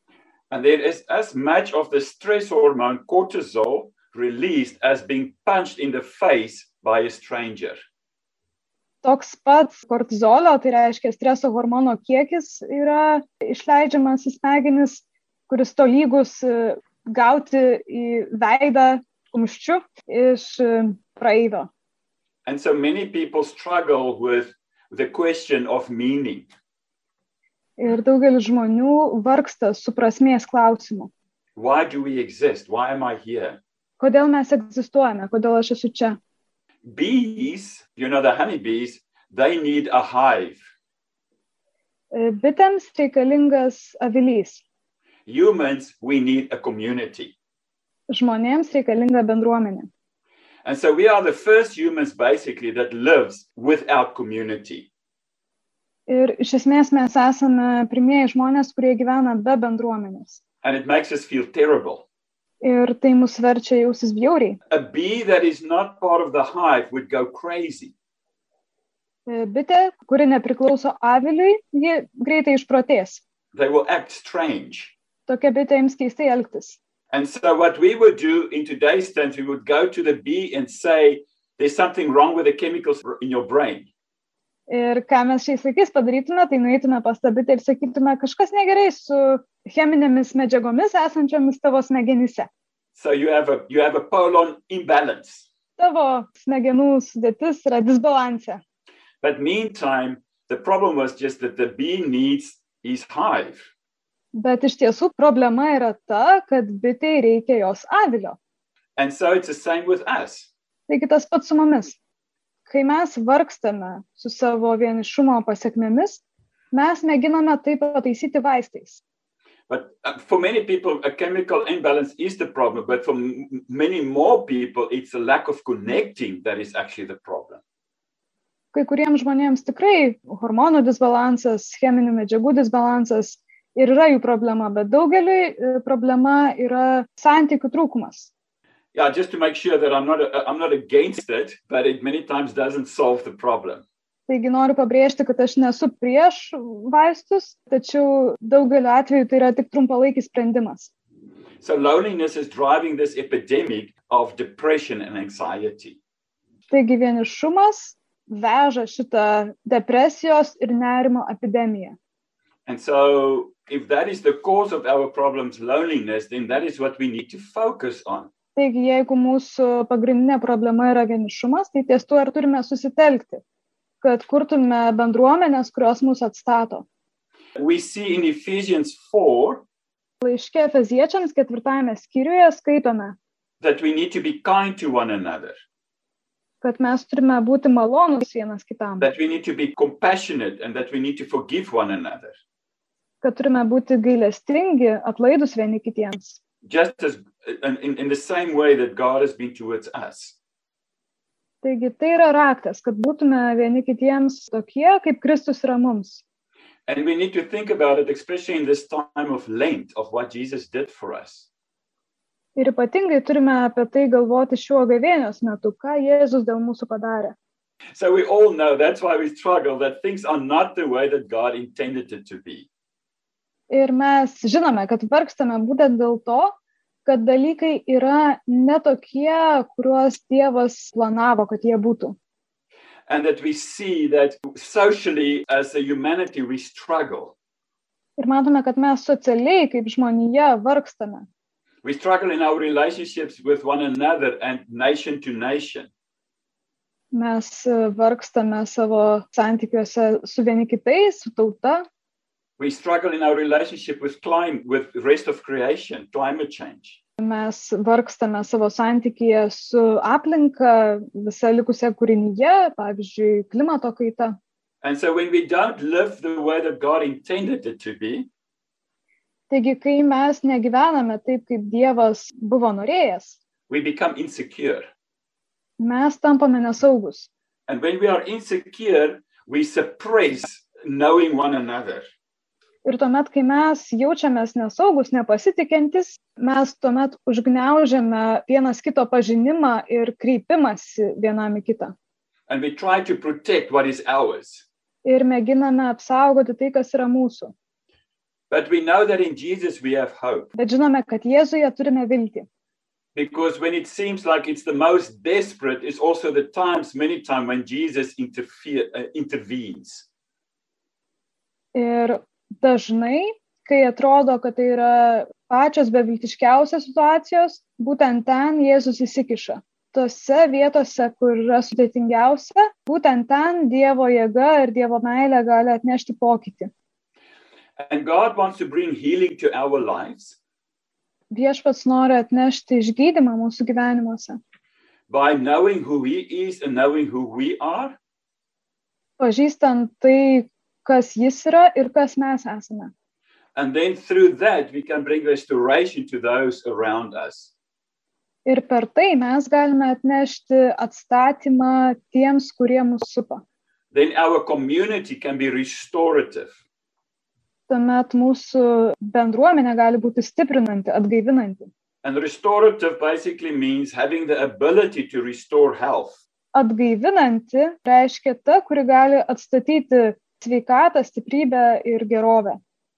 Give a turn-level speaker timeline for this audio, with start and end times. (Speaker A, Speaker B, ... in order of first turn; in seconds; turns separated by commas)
Speaker A: 0.5-7.8, Speaker B: 9.0-21.7, Speaker A: 22.4-26.5, Speaker B: 27.8-31.1, Speaker A: 31.6-33.6, Speaker B: 34.0-36.2, Speaker A: 36.8-40.6, Speaker B: 42.1-44.6, Speaker A: 45.2-47.3, Speaker B: 48.1-49.9, Speaker A: 50.6-54.9, Speaker B: 56.1-60.4, Speaker A: 60.6-62.0, Speaker B: 62.6-64.6, Speaker A: 64.7-67.9, Speaker B: 69.3-73.2, Speaker A: 73.5-74.9, Speaker B: 75.3-76.8, Speaker A: 77.1-83.9, Speaker B: 84.7-92.5, Speaker A: 92.9-95.4, Speaker B: 95.8-98.6, Speaker A: 99.2-103.7, Speaker B: 104.3-108.4, Speaker A: 109.0-110.5, Speaker B: 110.9-112.0, Speaker B: 112.7-119.0, Speaker A: 119.7-127.6, Speaker B: 128.7-138.3, Speaker A: 138.9-143.8, Speaker B: 144.3-150.9, Speaker A: 151.6-156.0, Speaker B: 156.7-162.0, Speaker A: 162.7-168.3, Speaker B: 168.6-173.4, Speaker B: 174.0-176.8, Speaker A: 177.6-179.6, Speaker B: 180.2-183.2, Speaker A: 183.6-185.6, Speaker B: 186.6-189.1, Speaker A: 189.0-192.4, Speaker B: 193.2-196.4, Speaker A: 196.6-200.4, Speaker B: 201.6-206.2, Speaker A: 206.9-211.5, Speaker B: 212.6-217.3, Speaker A: 217.9-222.7, Speaker B: 223.7-232.2, Speaker A: 233.1-237.3, Speaker B: 238.2-241.3, Speaker A: 241.8-245.9, Speaker B: 247.1-251.8, Speaker A: 252.6-257.0, Speaker B: 257.2-264.4, Speaker A: 264.8-268.3, Speaker B: 269.5-273.4, Speaker A: 273.7-274.9, Speaker B: 275.8-277.3, Speaker A: 277.7-282.1, Speaker B: 282.8-291.9, Speaker A: 292.5-294.6, Speaker B: 295.0-297.5, Speaker A: 298.5-300.5, Speaker B: 300.6-302.4, Speaker A: 303.1-310.1, Speaker B: 311.7-326.7, Speaker A: 327.8-330.4, Speaker B: 331.3-334.4, Speaker A: 335.1-338.0, Speaker B: 339.2-342.9, Speaker A: 343.5-347.5, Speaker B: 348.4-353.4, Speaker A: 353.9-356.6, Speaker B: 357.7-361.7, Speaker A: 362.0-366.2, Speaker B: 366.5-372.6